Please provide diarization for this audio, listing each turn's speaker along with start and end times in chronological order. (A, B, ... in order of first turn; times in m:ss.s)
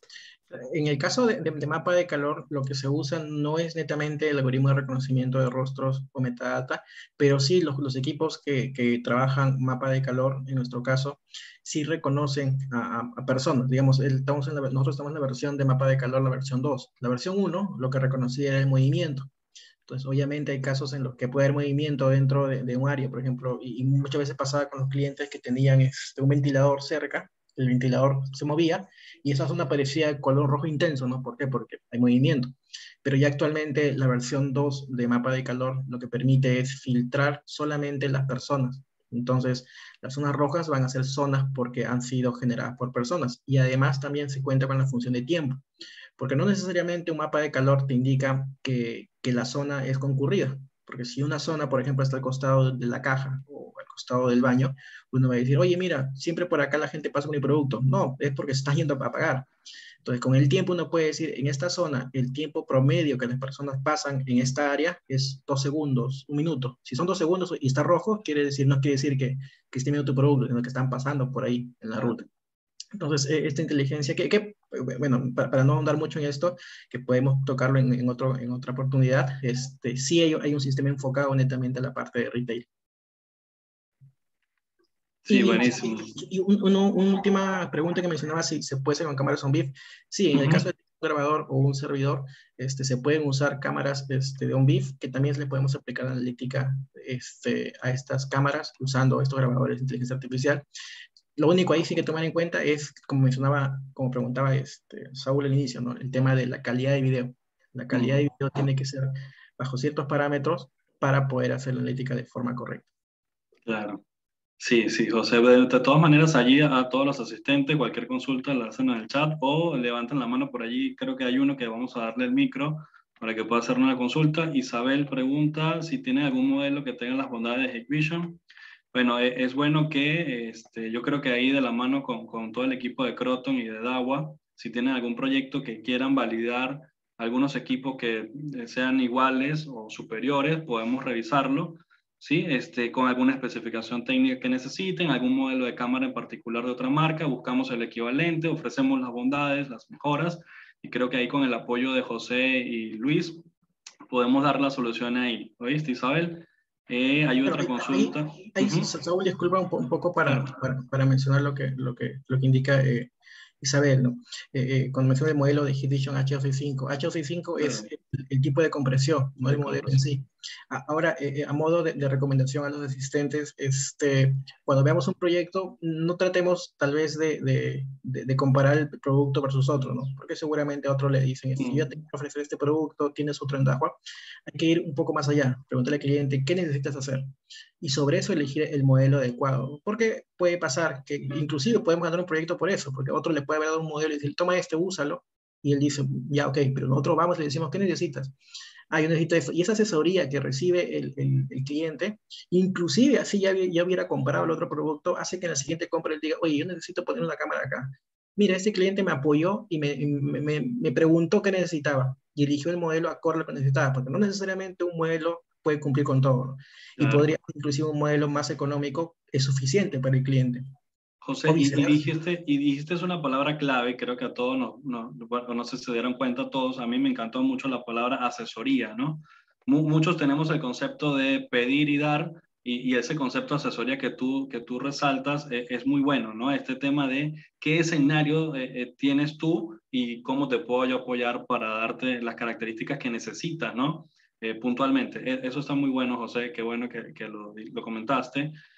0:00.5-0:19.3 A
0:19.9-0:45.6 A
0:46.2-0:59.5 A
1:00.0-1:12.2 A
1:12.0-1:12.3 B
1:12.9-1:22.7 A
1:25.2-1:26.2 B
1:25.3-1:40.7 A
1:30.3-1:30.7 B
1:41.4-1:52.9 A
1:47.9-1:48.3 B
1:53.6-1:54.0 B
1:54.6-2:08.4 B
2:08.9-2:33.4 B
2:34.1-2:38.9 B
2:37.4-3:07.3 A
2:40.2-2:40.5 B
2:47.6-2:47.9 B
2:49.5-2:50.1 B
3:01.6-3:02.0 B
3:07.8-3:18.3 A
3:18.9-3:40.6 A
3:37.0-3:37.3 B
3:41.2-4:08.6 B
3:41.4-3:42.1 A